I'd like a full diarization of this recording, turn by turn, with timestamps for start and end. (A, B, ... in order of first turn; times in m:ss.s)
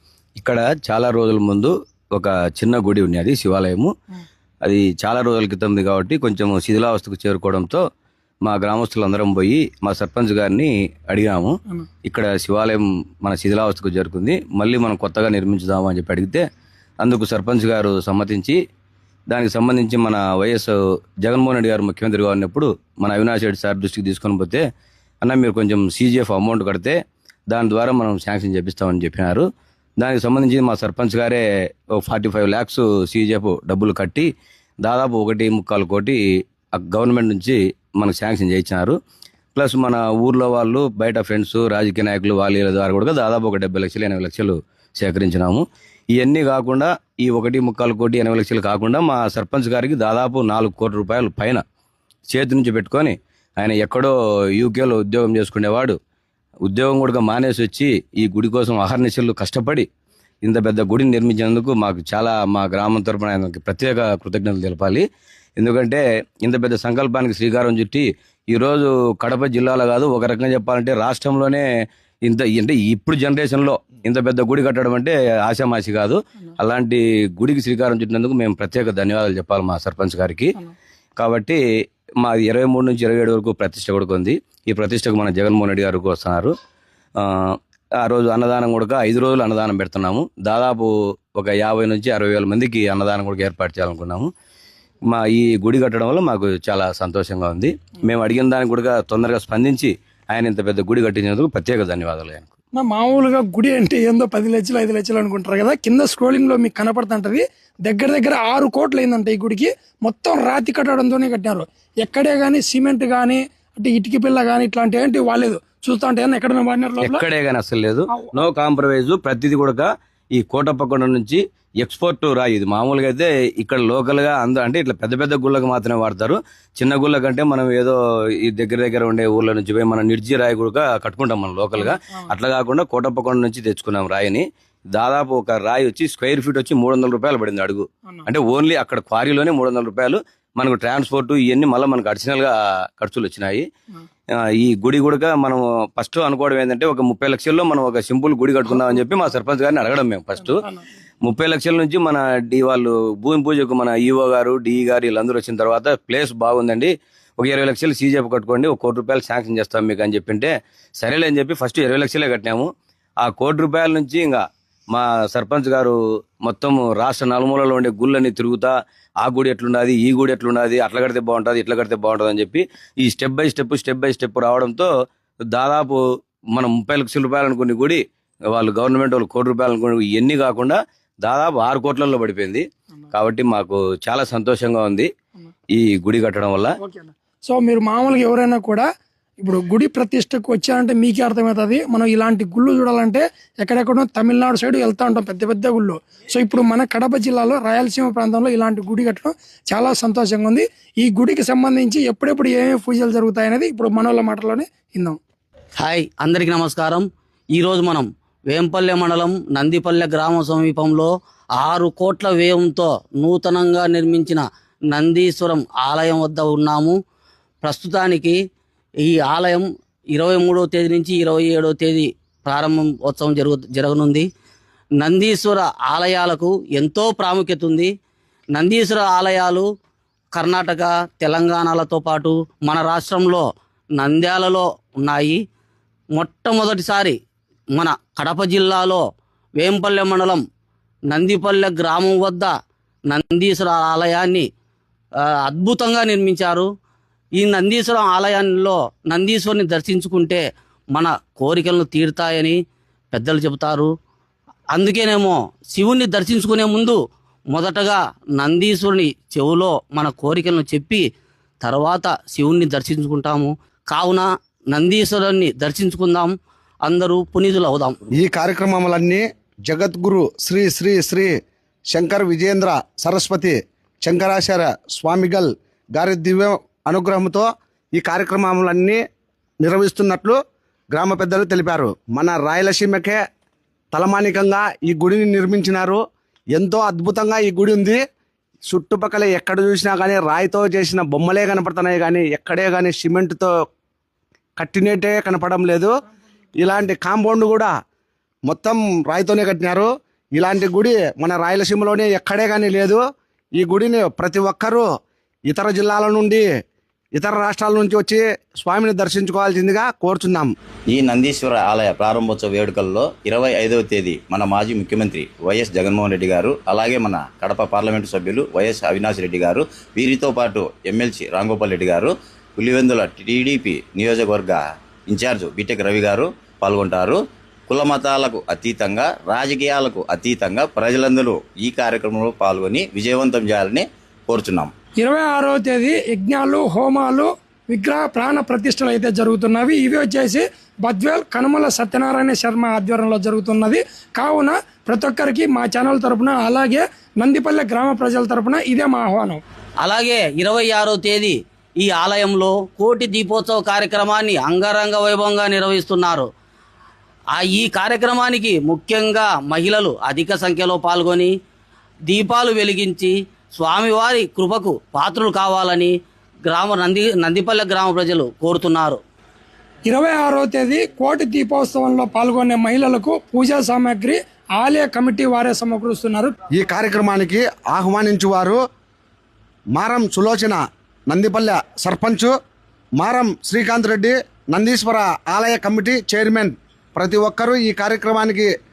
0:00.4-0:03.9 A
0:04.6-0:07.8 A
0:08.4-0:16.4 A
0:17.0-0:18.6 A
0:19.3-0:24.6 A
0:25.2-0:27.0 A
0:27.5-0:29.5 A
0:30.0-0:31.4 A
0:32.0-0:34.3 A
0:34.8-0:36.2 A
0:36.7-0:39.0 A
0:39.6-0:51.6 A
0:52.3-0:56.0 A
0:56.6-0:59.9 A
1:00.4-1:05.0 A
1:05.6-1:11.7 A
1:12.2-1:20.6 A
1:21.2-1:21.6 A
1:22.2-1:26.5 A
1:27.2-1:34.3 A
1:35.1-1:42.5 A
1:42.8-1:57.2 B
1:57.0-2:23.7 A
1:58.1-1:58.4 B
2:11.8-2:12.3 B
2:24.3-2:30.6 A
2:30.5-2:30.8 B
2:31.2-2:42.7 A
2:43.2-2:54.9 A
2:55.5-3:05.1 A
3:05.7-3:06.7 A
3:06.8-3:08.9 B
3:09.4-3:25.2 B
3:25.8-3:37.0 C
3:37.6-3:38.4 C
3:39.0-3:44.3 C
3:45.0-3:47.9 C
3:48.5-3:49.7 C
3:50.3-3:53.4 C
3:54.0-3:55.4 C
3:56.2-3:57.2 C
3:57.8-3:59.0 C
3:59.6-4:00.4 C
4:01.1-4:02.5 C
4:03.1-4:04.5 C
4:05.5-4:06.7 C
4:07.4-4:10.4 C
4:10.9-4:12.6 C
4:13.1-4:13.9 C
4:14.7-4:17.0 C
4:17.5-4:21.0 C
4:21.6-4:26.3 C
4:26.8-4:28.0 C
4:28.2-4:31.3 D
4:31.9-4:39.0 D
4:39.6-4:40.4 D
4:40.9-4:43.2 D
4:43.9-4:46.0 D
4:46.6-4:48.0 D
4:48.7-4:53.5 D
4:54.6-4:55.9 D
4:56.6-4:57.7 D
4:58.5-5:03.0 D
5:03.6-5:04.9 D
5:05.5-5:06.5 D
5:07.2-5:10.5 D
5:10.9-5:34.7 E
5:35.0-5:49.4 B
5:49.8-5:56.3 C
5:57.4-6:01.3 C
6:02.1-6:05.9 C
6:06.5-6:09.0 C
6:09.9-6:16.3 B
6:16.5-6:18.6 D
6:19.8-6:22.3 D
6:23.0-6:28.5 D